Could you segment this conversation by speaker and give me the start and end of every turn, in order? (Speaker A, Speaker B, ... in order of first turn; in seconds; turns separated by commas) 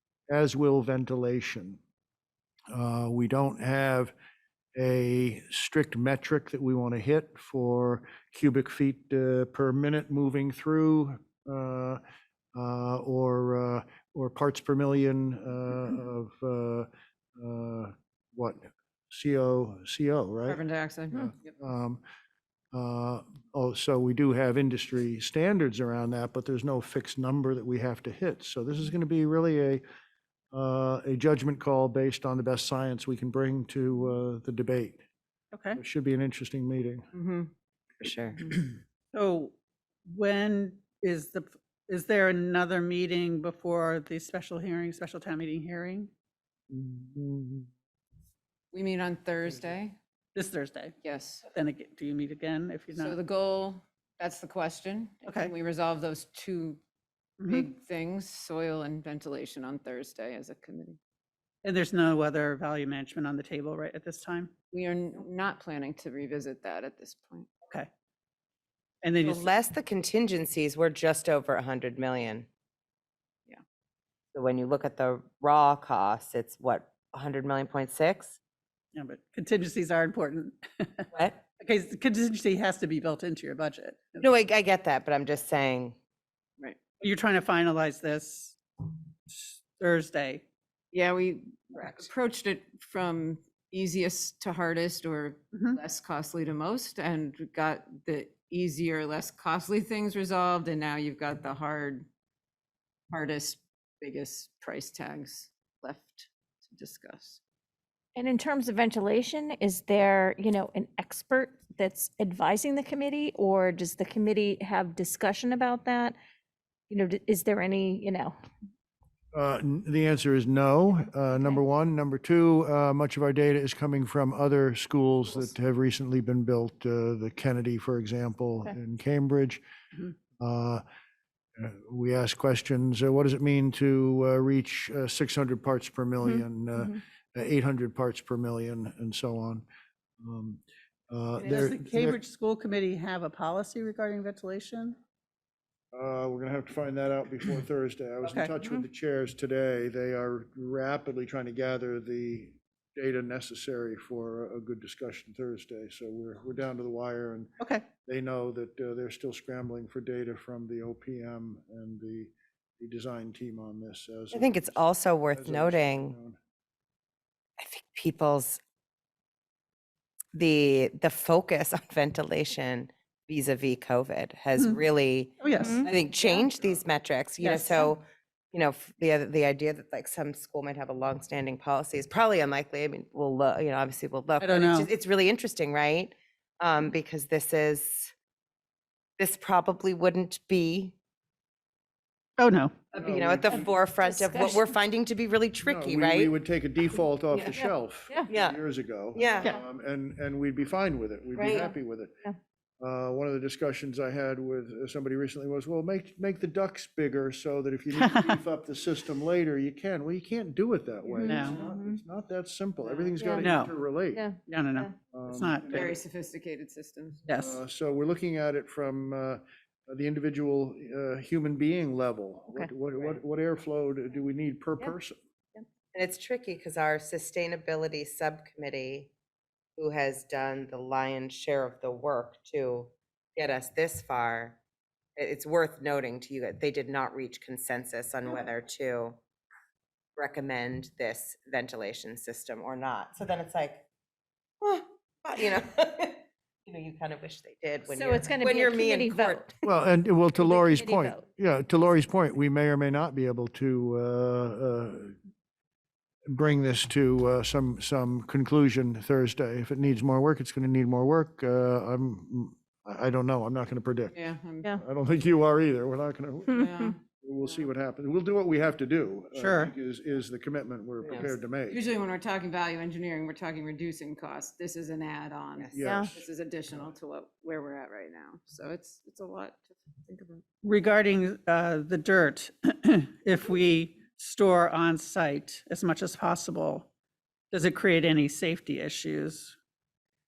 Speaker A: 0.3-1.8, Speaker A: 2.7-4.1, Speaker A: 4.8-12.0, Speaker A: 12.6-22.0, Speaker B: 20.5-21.5, Speaker A: 22.7-29.8, Speaker A: 30.5-35.0, Speaker C: 35.5-35.8, Speaker A: 35.8-37.1, Speaker B: 37.1-37.5, Speaker D: 38.0-38.5, Speaker C: 39.1-39.5, Speaker C: 40.1-46.1, Speaker A: 46.7-47.7, Speaker B: 48.7-50.0, Speaker C: 50.4-51.0, Speaker B: 51.0-51.5, Speaker C: 51.5-53.2, Speaker B: 52.9-56.8, Speaker C: 55.2-55.5, Speaker C: 57.4-57.7, Speaker B: 57.5-61.0, Speaker C: 61.6-64.5, Speaker B: 64.7-67.5, Speaker C: 69.0-69.5, Speaker D: 69.2-72.5, Speaker D: 74.3-78.4, Speaker C: 78.9-81.1, Speaker D: 81.1-81.4, Speaker C: 81.6-84.3, Speaker D: 84.2-86.0, Speaker C: 87.0-88.6, Speaker C: 89.3-90.4, Speaker B: 90.9-102.1, Speaker C: 91.8-92.0, Speaker C: 95.5-95.8, Speaker B: 103.1-107.4, Speaker E: 108.2-116.2, Speaker E: 116.9-118.4, Speaker A: 119.3-129.6, Speaker A: 130.4-130.8, Speaker A: 131.6-139.7, Speaker E: 136.2-137.0, Speaker A: 140.2-142.2, Speaker C: 141.4-145.0, Speaker A: 145.9-157.5, Speaker C: 148.3-148.5, Speaker C: 157.6-157.8, Speaker A: 158.0-166.4, Speaker D: 164.3-166.2, Speaker D: 167.6-168.6, Speaker D: 170.3-188.1, Speaker C: 175.4-175.9, Speaker E: 175.6-175.9, Speaker C: 177.4-177.9, Speaker C: 184.4-184.9, Speaker D: 189.2-190.9, Speaker C: 192.4-192.7, Speaker D: 192.9-196.3, Speaker A: 192.9-193.7, Speaker E: 193.5-194.7, Speaker A: 195.6-202.1, Speaker E: 197.5-198.3, Speaker D: 198.3-198.6, Speaker D: 199.1-199.6, Speaker D: 201.4-201.7, Speaker A: 202.8-214.2, Speaker C: 208.0-208.4, Speaker E: 211.1-212.0, Speaker C: 211.3-211.6, Speaker B: 212.8-213.1, Speaker E: 213.2-213.4, Speaker C: 213.4-213.7, Speaker E: 214.1-214.9, Speaker C: 214.5-215.9, Speaker A: 215.1-215.9, Speaker B: 215.7-217.2, Speaker C: 217.3-217.6, Speaker A: 217.4-225.2, Speaker D: 225.9-229.1, Speaker D: 229.8-234.6, Speaker D: 235.2-239.2, Speaker D: 240.2-243.8, Speaker D: 244.6-249.5, Speaker E: 247.9-249.5, Speaker A: 249.7-255.2, Speaker E: 250.4-251.3, Speaker A: 256.3-264.2, Speaker B: 264.1-264.8, Speaker A: 264.7-271.8, Speaker B: 266.5-267.7, Speaker C: 269.4-269.7, Speaker B: 271.1-280.4, Speaker D: 275.6-276.1, Speaker A: 275.7-276.2, Speaker E: 275.8-276.1, Speaker C: 280.6-286.9, Speaker C: 287.5-289.6